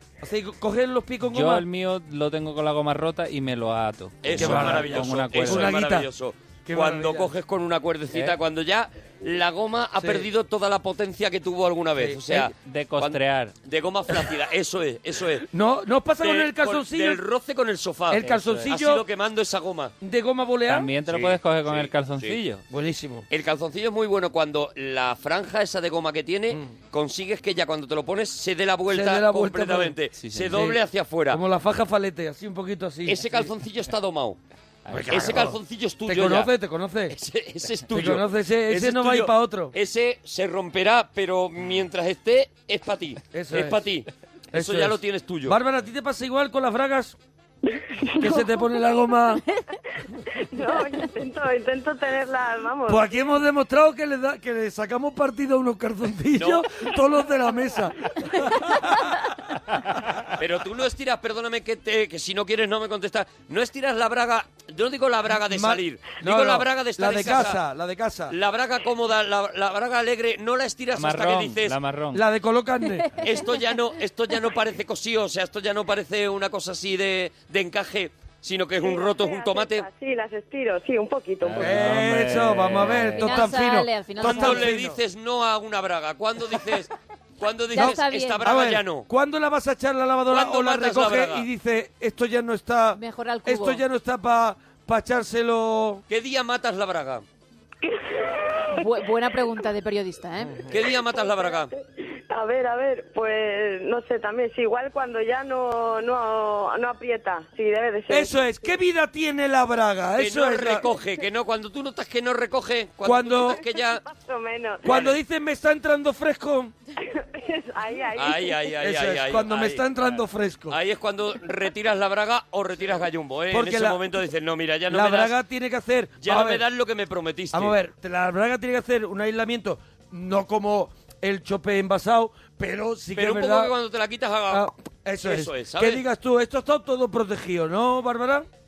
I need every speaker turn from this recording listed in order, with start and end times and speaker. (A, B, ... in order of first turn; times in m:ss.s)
0:00.2-0:01.6 A
0:01.3-0:05.8 B
0:04.2-0:15.5 C
0:04.3-0:06.1 A
0:06.7-0:07.3 A
0:10.0-0:10.3 A
0:12.0-0:12.2 A
0:12.6-0:13.5 B
0:15.5-0:17.2 A
0:16.2-0:19.9 C
0:18.1-0:19.0 A
0:18.2-0:18.7 B
0:20.0-0:20.9 A
0:20.7-0:22.6 B
0:21.1-0:22.4 C
0:22.7-0:23.2 A
0:23.3-0:31.4 C
0:28.9-0:30.0 A
0:30.2-0:30.7 B
0:30.5-0:30.8 A
0:31.3-0:33.2 A
0:33.0-0:34.4 C
0:34.9-0:35.2 B
0:34.9-0:37.2 A
0:35.1-0:36.5 C
0:37.1-0:45.6 C
0:37.9-0:39.7 A
0:43.3-0:43.8 A
0:44.5-0:47.2 A
0:47.7-0:48.5 D
0:48.2-0:49.4 A
0:50.5-0:53.0 D
0:52.9-0:58.8 A
0:56.4-0:56.6 C
1:00.4-1:07.6 C
1:05.4-1:08.3 A
1:08.3-1:11.8 C
1:11.0-1:12.2 B
1:12.1-1:13.1 A
1:13.2-1:19.8 C
1:18.8-1:21.6 D
1:21.4-1:23.5 B
1:21.6-1:25.0 A
1:23.1-1:24.7 E
1:24.2-1:29.1 C
1:27.7-1:28.5 E
1:27.8-1:36.0 A
1:30.3-1:31.5 C
1:32.9-1:33.8 E
1:36.1-1:37.2 C
1:37.8-1:38.7 D
1:38.7-1:40.6 E
1:40.7-1:41.7 C
1:41.0-1:48.4 D
1:48.1-1:50.9 A
1:50.2-1:54.0 C
1:53.0-1:53.6 A
1:53.9-1:54.8 D
1:54.8-1:56.7 A
1:54.8-1:55.2 C
1:57.0-1:58.6 D
1:58.2-1:59.9 C
1:58.8-2:00.8 A
2:00.7-2:05.4 C
2:03.5-2:04.0 A
2:04.9-2:06.6 A
2:06.2-2:07.7 C
2:07.5-2:13.7 A
2:13.1-2:14.7 C
2:14.5-2:18.5 A
2:15.2-2:16.0 C